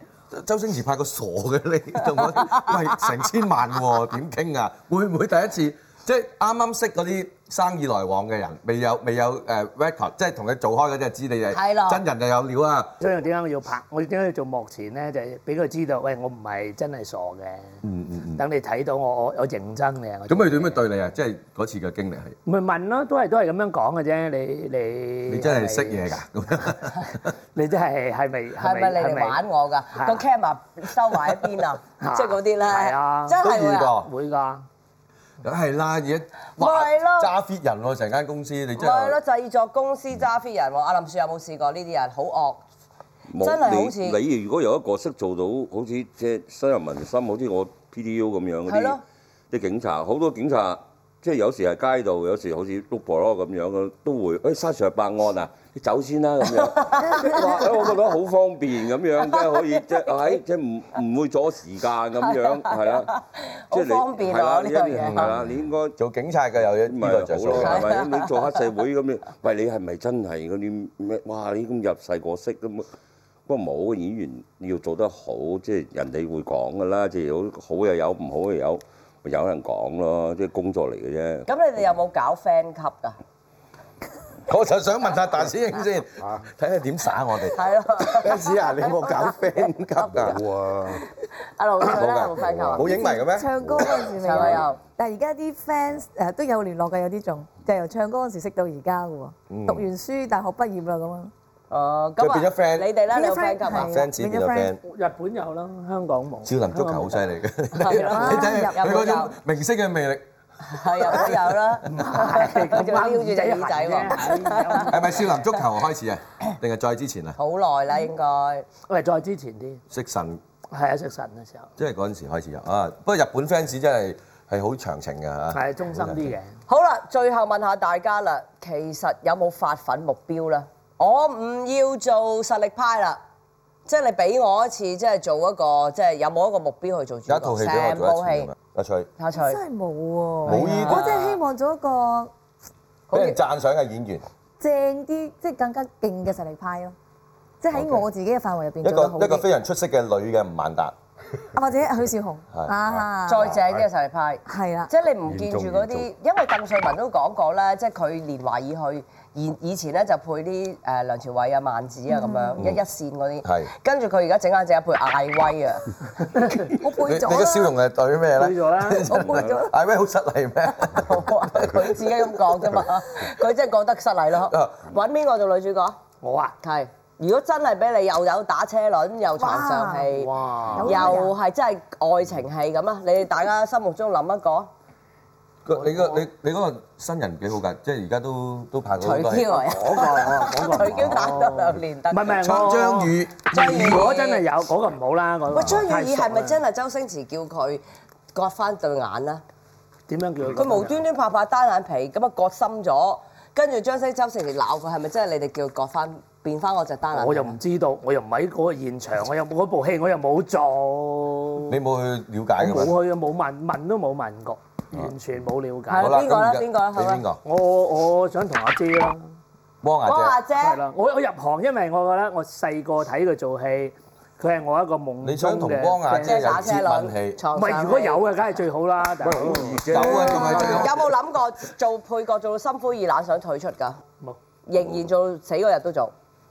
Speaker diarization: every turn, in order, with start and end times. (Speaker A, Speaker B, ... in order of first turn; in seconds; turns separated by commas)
Speaker A: 0.3-12.9, Speaker B: 2.2-2.8, Speaker B: 11.5-12.0, Speaker C: 13.0-17.7, Speaker A: 17.8-18.4, Speaker C: 18.4-20.8, Speaker A: 20.3-22.4, Speaker C: 22.5-26.0, Speaker A: 25.3-27.3, Speaker C: 27.6-29.4, Speaker B: 28.6-33.9, Speaker C: 29.9-30.2, Speaker C: 32.0-33.4, Speaker A: 33.4-34.1, Speaker C: 34.0-34.6, Speaker A: 35.4-39.2, Speaker B: 36.6-37.3, Speaker B: 38.8-42.6, Speaker D: 43.3-49.0, Speaker B: 43.4-44.2, Speaker B: 48.7-49.0, Speaker D: 49.5-63.1, Speaker B: 56.7-57.6, Speaker B: 59.2-60.4, Speaker B: 62.4-65.3, Speaker D: 63.7-66.0, Speaker A: 65.0-67.9, Speaker D: 66.8-72.9, Speaker B: 67.6-68.5, Speaker D: 73.5-81.5, Speaker B: 81.5-83.2, Speaker A: 84.5-90.4, Speaker B: 87.5-89.3, Speaker E: 90.1-91.0, Speaker B: 91.6-92.9, Speaker A: 91.8-94.1, Speaker E: 92.4-93.1, Speaker F: 92.8-101.3, Speaker E: 93.6-94.6, Speaker B: 94.2-94.8, Speaker A: 99.5-99.9, Speaker B: 101.7-104.0, Speaker A: 102.2-102.9, Speaker F: 103.1-104.8, Speaker A: 103.7-104.8, Speaker C: 104.8-107.2, Speaker A: 106.4-110.2, Speaker B: 107.8-109.3, Speaker C: 107.8-108.4, Speaker F: 108.0-109.2, Speaker B: 110.6-115.0, Speaker A: 110.8-111.5, Speaker C: 111.9-115.3, Speaker A: 114.8-117.4, Speaker B: 117.4-118.7, Speaker C: 118.9-119.8, Speaker A: 119.9-120.4, Speaker C: 120.7-121.7, Speaker A: 121.8-126.3, Speaker C: 125.5-126.5, Speaker B: 126.7-133.2, Speaker B: 133.9-138.5, Speaker A: 137.3-139.1, Speaker B: 139.2-139.6, Speaker F: 139.4-142.3, Speaker A: 140.4-141.1, Speaker B: 140.5-141.4, Speaker B: 143.1-143.4, Speaker A: 143.1-144.3, Speaker F: 144.6-146.9, Speaker F: 147.6-149.4, Speaker A: 147.7-148.1, Speaker A: 148.8-150.9, Speaker F: 151.5-153.6, Speaker E: 152.9-153.8, Speaker B: 153.3-165.9, Speaker F: 154.5-154.9, Speaker E: 155.2-156.1, Speaker F: 162.1-162.6, Speaker A: 163.4-163.7, Speaker F: 166.7-167.7, Speaker A: 166.9-171.7, Speaker C: 168.4-169.1, Speaker B: 169.1-169.7, Speaker B: 171.0-176.0, Speaker A: 174.5-174.8, Speaker C: 176.2-176.5, Speaker B: 176.6-180.3, Speaker F: 179.4-180.1, Speaker C: 180.1-181.2, Speaker F: 180.7-181.3, Speaker B: 180.8-184.7, Speaker A: 185.7-189.6, Speaker B: 189.0-192.3, Speaker C: 189.6-196.6, Speaker A: 192.4-194.1, Speaker B: 193.5-194.4, Speaker B: 195.5-197.8, Speaker B: 198.3-199.4, Speaker C: 200.1-201.0, Speaker B: 200.5-207.6, Speaker C: 207.1-211.8, Speaker A: 211.7-212.9, Speaker C: 212.6-216.2, Speaker B: 215.9-217.2, Speaker A: 216.0-217.4, Speaker C: 217.4-219.3, Speaker A: 219.8-220.4, Speaker B: 220.1-220.8, Speaker C: 220.6-226.5, Speaker A: 225.2-227.4, Speaker B: 226.1-228.2, Speaker C: 227.5-230.0, Speaker E: 229.2-231.1, Speaker A: 229.8-231.0, Speaker B: 229.9-234.0, Speaker B: 234.7-236.1